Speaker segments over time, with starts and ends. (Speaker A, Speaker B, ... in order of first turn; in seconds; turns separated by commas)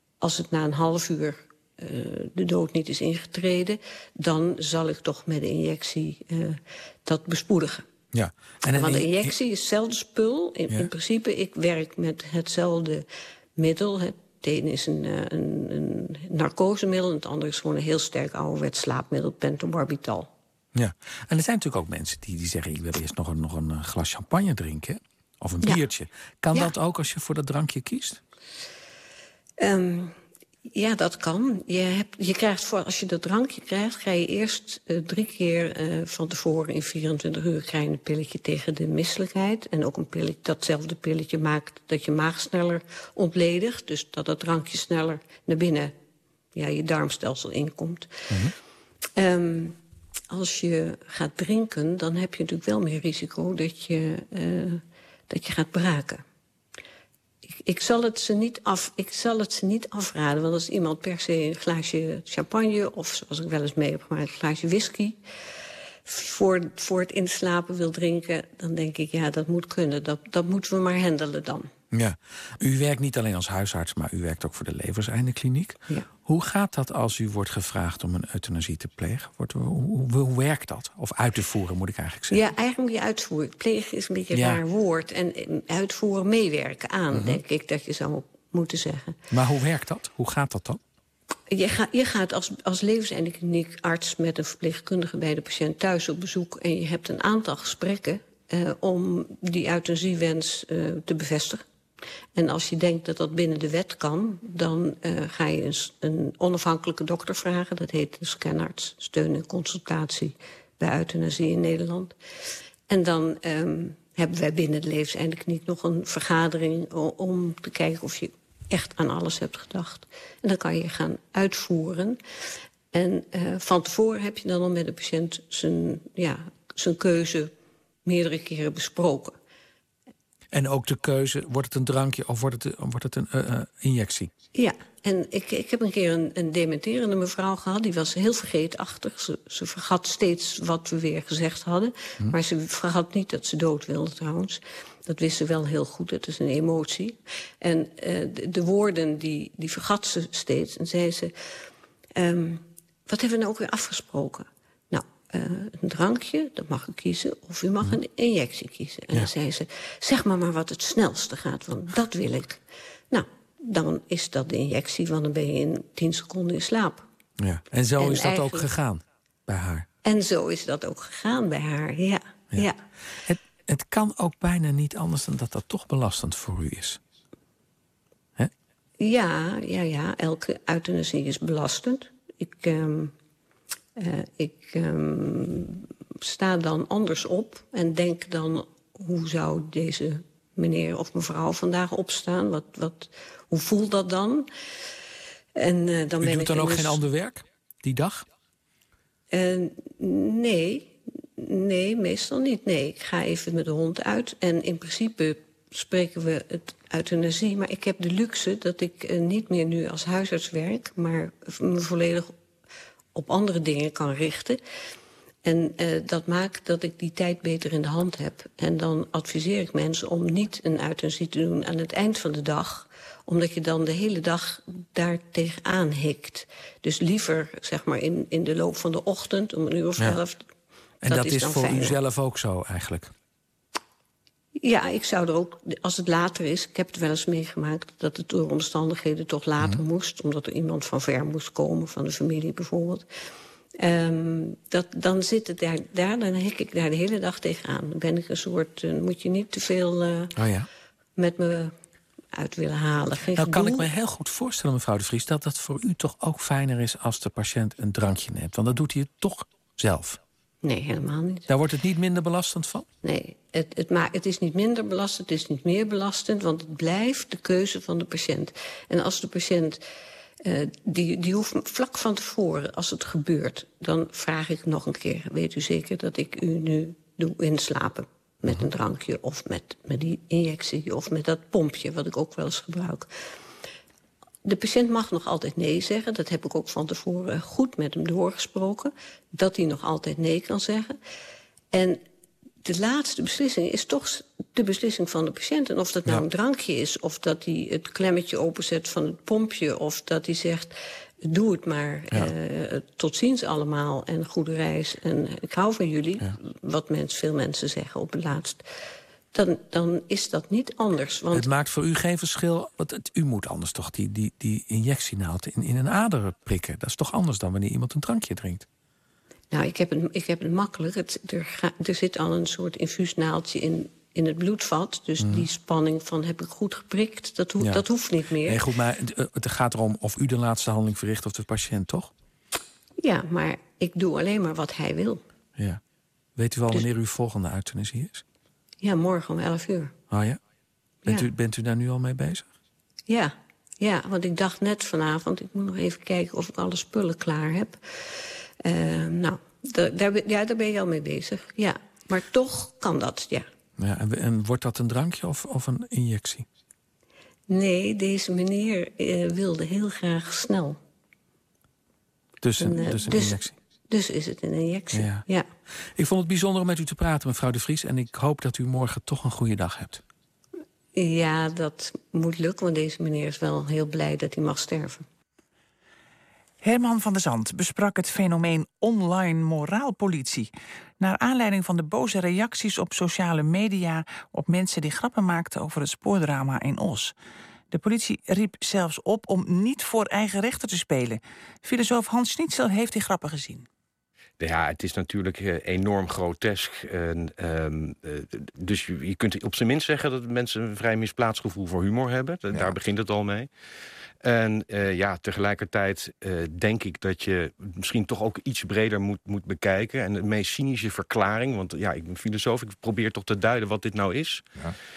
Speaker A: 0.2-7.8, Speaker B: 8.1-9.3, Speaker A: 8.7-20.3, Speaker B: 20.7-28.2, Speaker A: 29.6-30.1, Speaker A: 30.7-45.9, Speaker A: 46.5-48.4, Speaker A: 49.2-49.8, Speaker A: 50.3-56.2, Speaker A: 57.6-65.2, Speaker A: 66.1-71.7, Speaker B: 71.9-82.4, Speaker A: 82.3-89.2, Speaker B: 84.3-84.6, Speaker B: 87.1-87.4, Speaker B: 89.3-90.8, Speaker A: 91.5-101.6, Speaker A: 102.3-112.1, Speaker A: 112.9-122.2, Speaker A: 122.9-127.5, Speaker A: 128.1-129.4, Speaker B: 130.5-134.3, Speaker A: 134.6-151.3, Speaker A: 152.2-167.0, Speaker B: 167.4-169.9, Speaker A: 168.0-168.7, Speaker A: 170.1-172.8, Speaker B: 173.2-177.0, Speaker A: 179.0-183.1, Speaker A: 184.0-194.5, Speaker A: 195.6-197.1, Speaker B: 196.2-198.3, Speaker A: 199.3-212.3, Speaker A: 213.2-214.6, Speaker A: 215.4-230.5, Speaker B: 231.0-233.1, Speaker A: 231.1-232.0, Speaker A: 234.6-243.1, Speaker A: 243.8-250.3, Speaker B: 250.4-250.7, Speaker A: 251.2-251.7, Speaker A: 252.3-253.9, Speaker B: 253.3-260.2, Speaker A: 260.6-261.5, Speaker B: 261.5-262.9, Speaker A: 263.0-269.8, Speaker A: 270.4-283.1, Speaker A: 284.4-291.0, Speaker A: 291.7-292.0, Speaker A: 292.6-308.6, Speaker A: 309.3-311.5, Speaker B: 311.3-318.7, Speaker A: 319.5-328.6, Speaker B: 325.2-325.5, Speaker B: 327.6-327.9, Speaker B: 328.4-332.1, Speaker A: 333.0-335.2, Speaker B: 335.6-335.8, Speaker B: 336.4-338.2, Speaker A: 338.8-339.9, Speaker B: 340.1-340.4, Speaker B: 341.0-342.5, Speaker A: 343.1-353.5, Speaker B: 353.8-356.5, Speaker A: 357.5-360.8, Speaker B: 362.4-363.6, Speaker A: 362.6-365.5, Speaker B: 364.9-365.3, Speaker B: 366.0-370.0, Speaker A: 370.9-375.1, Speaker C: 376.6-387.1, Speaker C: 387.7-393.7, Speaker D: 394.4-403.5, Speaker D: 404.2-414.4